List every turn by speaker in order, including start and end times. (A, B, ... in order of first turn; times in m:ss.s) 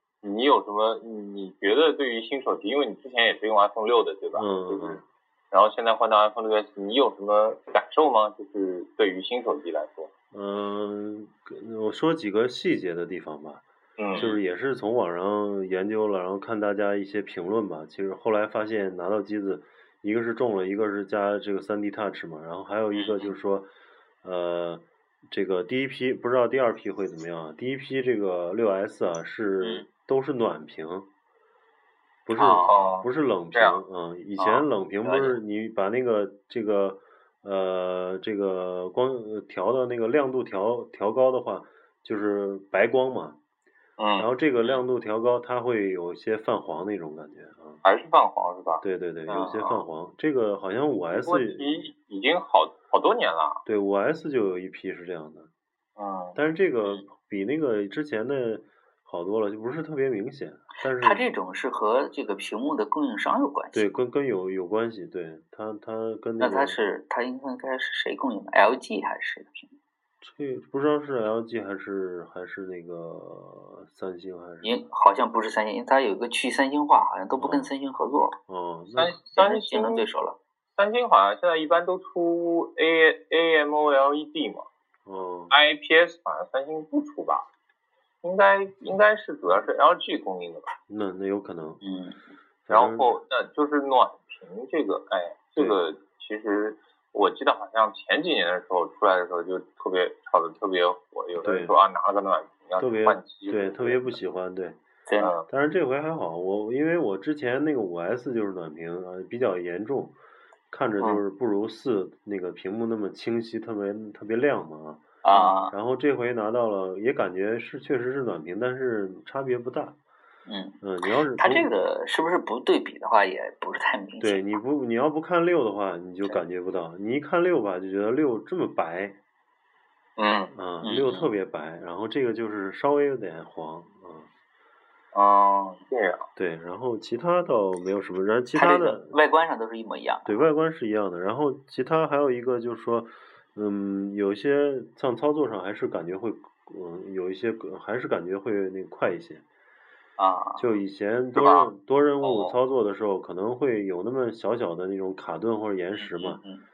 0:00.2-0:10.1 A
0:04.3-0:05.0 B
0:10.3-0:13.6 B
0:14.0-0:14.3 A
0:14.2-0:23.7 B
0:22.9-0:23.4 C
0:24.2-0:31.1 B
0:29.6-0:29.9 C
0:32.3-0:43.4 B
0:32.4-0:32.8 C
0:32.7-0:33.8 A
0:34.4-0:35.4 C
0:44.0-0:44.3 A
0:44.2-0:47.8 B
0:47.8-0:48.8 A
0:48.8-0:51.8 B
0:49.3-0:49.8 C
0:51.1-0:53.6 A
0:53.7-0:55.5 B
0:56.0-0:56.4 A
0:56.4-1:01.2 B
1:01.0-1:03.9 C
1:03.7-1:06.8 B
1:06.4-1:09.7 C
1:10.2-1:14.9 B
1:14.6-1:18.4 C
1:17.3-1:17.7 B
1:18.5-1:19.2 B
1:18.9-1:20.1 A
1:19.4-1:20.4 C
1:20.8-1:24.7 A
1:25.0-1:25.5 B
1:25.5-1:27.5 A
1:28.2-1:30.7 A
1:30.9-1:31.8 B
1:31.8-1:32.2 C
1:32.7-1:33.2 B
1:32.7-1:44.2 A
1:41.4-1:41.8 B
1:42.8-1:44.8 B
1:45.1-1:45.3 C
1:45.2-1:45.5 A
1:45.5-1:50.2 B
1:50.7-1:55.1 B
1:55.2-1:55.7 C
1:55.7-2:00.0 B
2:00.5-2:00.8 C
2:00.8-2:01.7 B
2:01.4-2:04.6 C
2:04.2-2:09.2 B
2:10.2-2:10.5 A
2:10.5-2:14.3 B
2:10.8-2:11.3 C
2:15.1-2:16.3 A
2:16.4-2:19.2 B
2:18.5-2:20.4 C
2:20.3-2:29.4 B
2:30.2-2:30.6 C
2:30.6-2:36.4 B
2:32.2-2:32.5 C
2:36.0-2:36.6 C